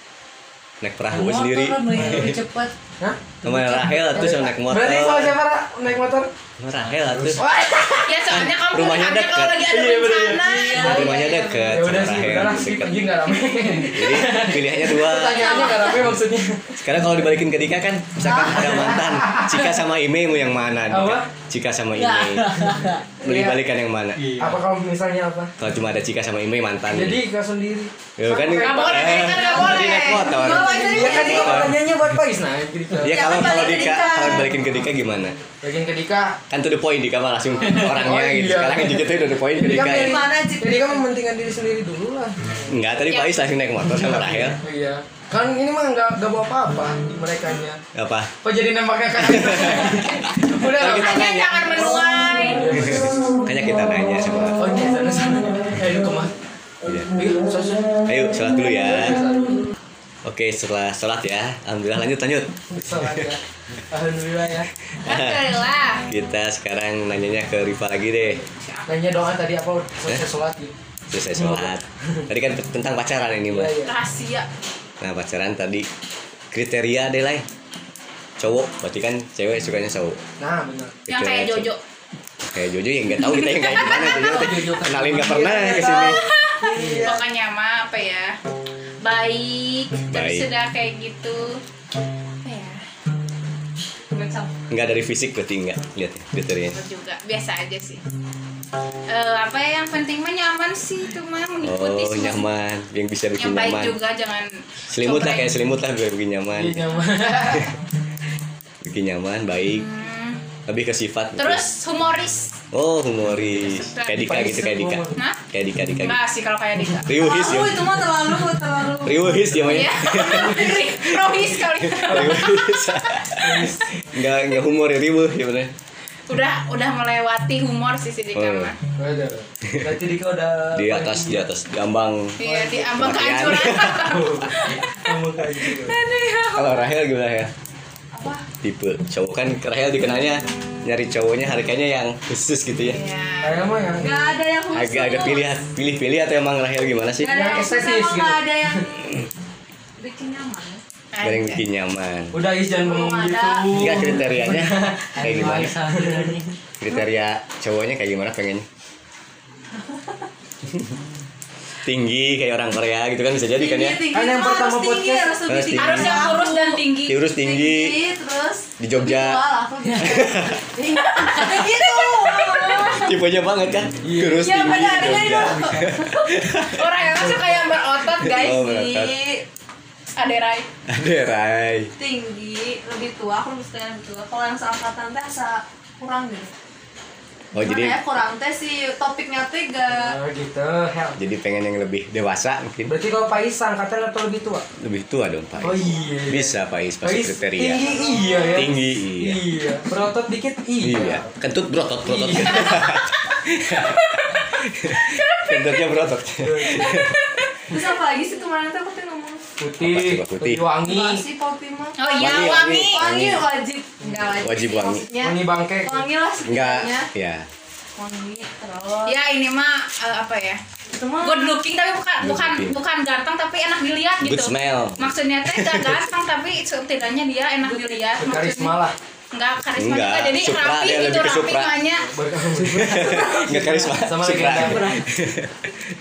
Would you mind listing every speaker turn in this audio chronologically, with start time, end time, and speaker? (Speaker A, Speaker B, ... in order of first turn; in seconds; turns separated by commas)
Speaker A: 0.8-2.4, Speaker B: 1.1-2.7, Speaker C: 1.9-2.3, Speaker C: 3.0-6.3, Speaker A: 3.4-5.4, Speaker B: 3.5-4.2, Speaker A: 6.6-7.4, Speaker B: 6.8-7.4, Speaker C: 7.4-8.1, Speaker D: 7.8-11.2, Speaker A: 8.3-9.7, Speaker C: 9.7-16.8, Speaker B: 10.5-10.9, Speaker E: 10.7-11.7, Speaker A: 10.8-13.1, Speaker A: 13.9-15.6, Speaker E: 15.3-16.1, Speaker A: 16.8-24.2, Speaker E: 18.3-19.1, Speaker C: 18.5-19.6, Speaker C: 20.9-21.3, Speaker B: 22.0-23.1, Speaker C: 22.6-23.6, Speaker B: 24.2-24.6, Speaker C: 24.4-25.5, Speaker A: 25.6-27.2, Speaker C: 26.9-29.3, Speaker A: 28.2-31.8, Speaker D: 28.5-30.5, Speaker E: 29.1-31.7, Speaker C: 30.4-33.5, Speaker E: 33.0-34.6, Speaker A: 33.0-35.4, Speaker C: 35.5-36.4, Speaker A: 36.5-40.3, Speaker C: 37.6-42.7, Speaker E: 39.6-41.0, Speaker A: 42.7-44.6, Speaker D: 43.1-43.4, Speaker C: 44.0-47.8, Speaker A: 47.9-48.3, Speaker C: 48.4-53.3, Speaker A: 49.2-52.1, Speaker D: 50.7-52.8, Speaker A: 52.7-54.7, Speaker C: 54.6-56.4, Speaker A: 56.9-57.1, Speaker C: 57.1-58.0, Speaker A: 58.1-59.2, Speaker C: 58.8-59.7, Speaker A: 60.2-63.3, Speaker C: 62.7-64.7, Speaker A: 65.0-65.5, Speaker D: 65.0-66.1, Speaker A: 66.1-68.4, Speaker D: 68.6-68.9, Speaker C: 68.9-70.7, Speaker A: 71.1-73.8, Speaker C: 71.3-72.3, Speaker C: 73.5-74.0, Speaker D: 73.8-74.5, Speaker A: 75.0-75.9, Speaker A: 76.5-77.5, Speaker A: 78.4-80.2, Speaker C: 80.4-81.0, Speaker A: 81.1-81.7, Speaker D: 81.1-81.8, Speaker A: 82.5-86.2, Speaker D: 83.5-84.1, Speaker B: 84.2-85.5, Speaker C: 85.4-85.9, Speaker D: 86.0-88.4, Speaker C: 86.6-87.2, Speaker D: 89.0-91.6, Speaker A: 90.1-90.5, Speaker D: 92.4-92.8, Speaker E: 94.1-94.6, Speaker A: 94.7-96.8, Speaker D: 96.7-98.0, Speaker D: 99.1-102.5, Speaker A: 101.6-104.0, Speaker D: 103.4-105.5, Speaker A: 104.9-106.9, Speaker C: 106.6-107.7, Speaker A: 108.8-109.9, Speaker D: 109.7-110.4, Speaker A: 110.7-111.6, Speaker D: 111.4-112.6, Speaker A: 112.7-116.2, Speaker D: 113.8-114.3, Speaker C: 114.1-115.2, Speaker D: 116.0-117.1, Speaker A: 117.0-118.0, Speaker E: 117.1-119.2, Speaker A: 119.0-125.7, Speaker D: 119.7-123.3, Speaker C: 123.4-124.0, Speaker D: 126.3-128.8, Speaker A: 128.3-128.7, Speaker C: 129.0-131.4, Speaker A: 130.8-134.2, Speaker D: 132.4-135.1, Speaker C: 132.4-133.0, Speaker C: 134.0-136.0, Speaker D: 135.9-136.7, Speaker A: 136.5-137.5, Speaker E: 138.1-138.4, Speaker A: 138.6-143.0, Speaker D: 142.8-143.6, Speaker C: 143.4-144.2, Speaker E: 144.0-145.5, Speaker A: 144.7-147.4, Speaker E: 147.2-149.3, Speaker C: 147.2-148.9, Speaker E: 150.0-150.8, Speaker D: 151.1-151.6, Speaker A: 151.2-152.4, Speaker C: 152.3-156.4, Speaker E: 152.7-153.9, Speaker A: 153.7-155.8, Speaker B: 155.2-156.5, Speaker A: 156.8-158.7, Speaker E: 159.8-160.2, Speaker A: 161.8-164.0, Speaker E: 163.5-173.2, Speaker C: 164.1-165.4, Speaker A: 165.4-166.3, Speaker D: 165.7-167.3, Speaker A: 167.1-168.0, Speaker A: 168.8-169.4, Speaker A: 170.0-170.6, Speaker D: 171.1-173.0, Speaker A: 172.9-176.9, Speaker C: 174.0-174.8, Speaker E: 174.3-176.3, Speaker D: 176.7-178.6, Speaker E: 178.2-179.4, Speaker A: 178.2-179.2, Speaker D: 180.2-180.7, Speaker A: 180.9-181.9, Speaker E: 182.0-186.5, Speaker A: 187.5-188.0, Speaker E: 187.5-190.2, Speaker C: 189.9-191.2, Speaker A: 191.2-192.9, Speaker C: 192.9-194.7, Speaker A: 194.8-197.8, Speaker C: 195.6-201.3, Speaker E: 197.8-198.7, Speaker A: 198.5-199.4, Speaker A: 200.8-207.2, Speaker C: 202.1-202.8, Speaker D: 202.6-203.0, Speaker D: 203.8-205.9, Speaker C: 206.4-207.0, Speaker D: 206.8-207.5, Speaker E: 207.7-209.5, Speaker C: 209.6-211.2, Speaker A: 209.8-210.7, Speaker E: 210.8-217.1, Speaker D: 212.0-213.0, Speaker A: 212.2-213.5, Speaker A: 214.4-215.1, Speaker C: 215.2-216.1, Speaker A: 216.4-217.5, Speaker E: 218.0-219.2, Speaker D: 219.1-220.6, Speaker E: 220.9-221.6, Speaker D: 221.2-228.8, Speaker A: 222.2-222.8, Speaker A: 224.2-226.1, Speaker E: 227.6-228.1, Speaker C: 228.2-228.9, Speaker D: 229.3-232.1, Speaker A: 229.8-231.8, Speaker C: 231.9-235.0, Speaker A: 232.6-235.8, Speaker E: 232.9-234.0, Speaker E: 234.6-235.1